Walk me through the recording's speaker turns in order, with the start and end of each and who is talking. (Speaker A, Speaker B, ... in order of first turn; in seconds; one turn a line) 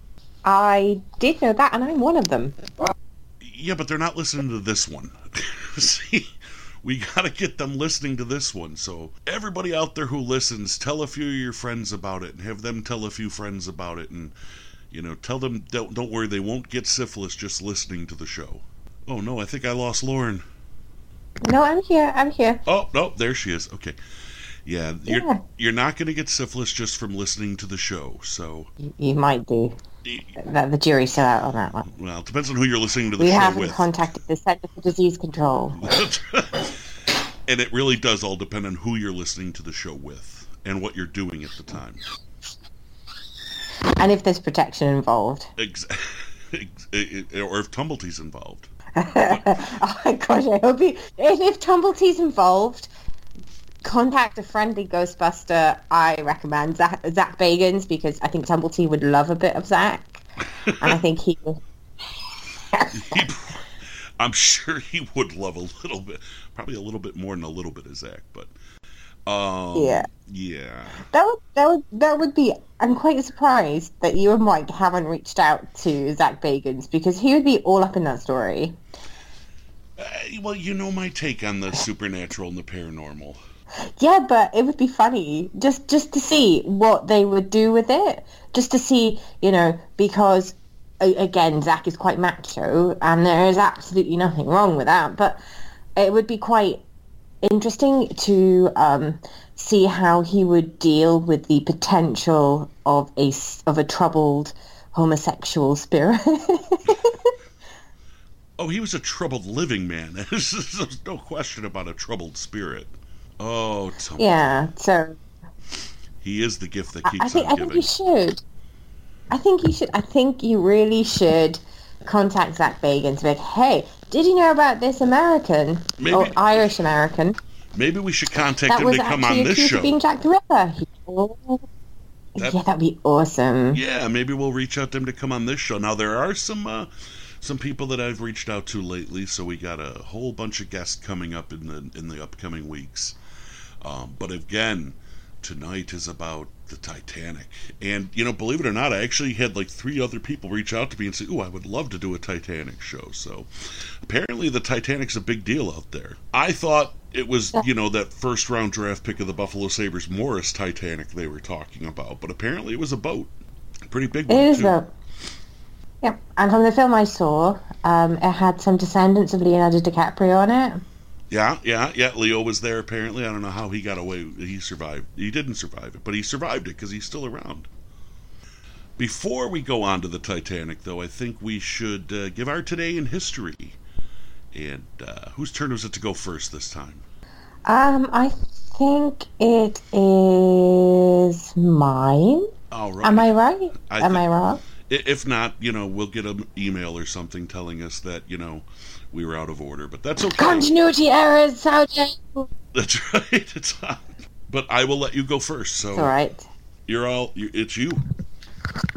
Speaker A: 0.4-2.8
Speaker B: 3.4-14.3
Speaker B: 14.9-20.4
Speaker A: 21.4-22.6
Speaker B: 22.6-24.0
Speaker B: 24.6-28.7
Speaker A: 25.1-25.4
Speaker A: 28.8-29.8
Speaker B: 30.0-30.3
Speaker A: 30.4-31.9
Speaker B: 31.9-33.9
Speaker A: 33.2-35.9
Speaker B: 35.8-36.9
Speaker B: 37.5-42.0
Speaker A: 44.0-45.5
Speaker B: 45.6-48.7
Speaker A: 49.0-52.9
Speaker B: 49.3-49.5
Speaker A: 53.8-60.2
Speaker B: 60.6-61.0
Speaker A: 60.8-61.6
Speaker A: 62.7-63.2
Speaker B: 62.9-63.6
Speaker B: 64.2-68.5
Speaker B: 69.2-71.0
Speaker A: 69.7-70.1
Speaker A: 71.1-78.8
Speaker B: 80.0-83.4
Speaker A: 84.0-95.4
Speaker A: 96.0-96.8
Speaker A: 97.4-107.3
Speaker B: 108.6-114.3
Speaker A: 114.2-115.2
Speaker B: 116.2-117.9
Speaker A: 117.0-118.4
Speaker A: 119.3-127.4
Speaker B: 126.0-126.7
Speaker B: 127.7-130.0
Speaker A: 128.7-131.6
Speaker A: 132.3-133.8
Speaker B: 133.7-143.2
Speaker B: 143.8-163.3
Speaker B: 163.9-164.8
Speaker A: 164.3-164.9
Speaker A: 166.0-170.8
Speaker B: 171.3-177.7
Speaker B: 179.0-183.8
Speaker B: 184.5-187.0
Speaker A: 187.7-192.5
Speaker B: 192.7-193.3
Speaker A: 193.0-194.6
Speaker B: 193.9-194.2
Speaker B: 194.8-200.7
Speaker A: 200.4-202.5
Speaker B: 202.7-206.1
Speaker A: 205.9-206.5
Speaker B: 206.9-208.0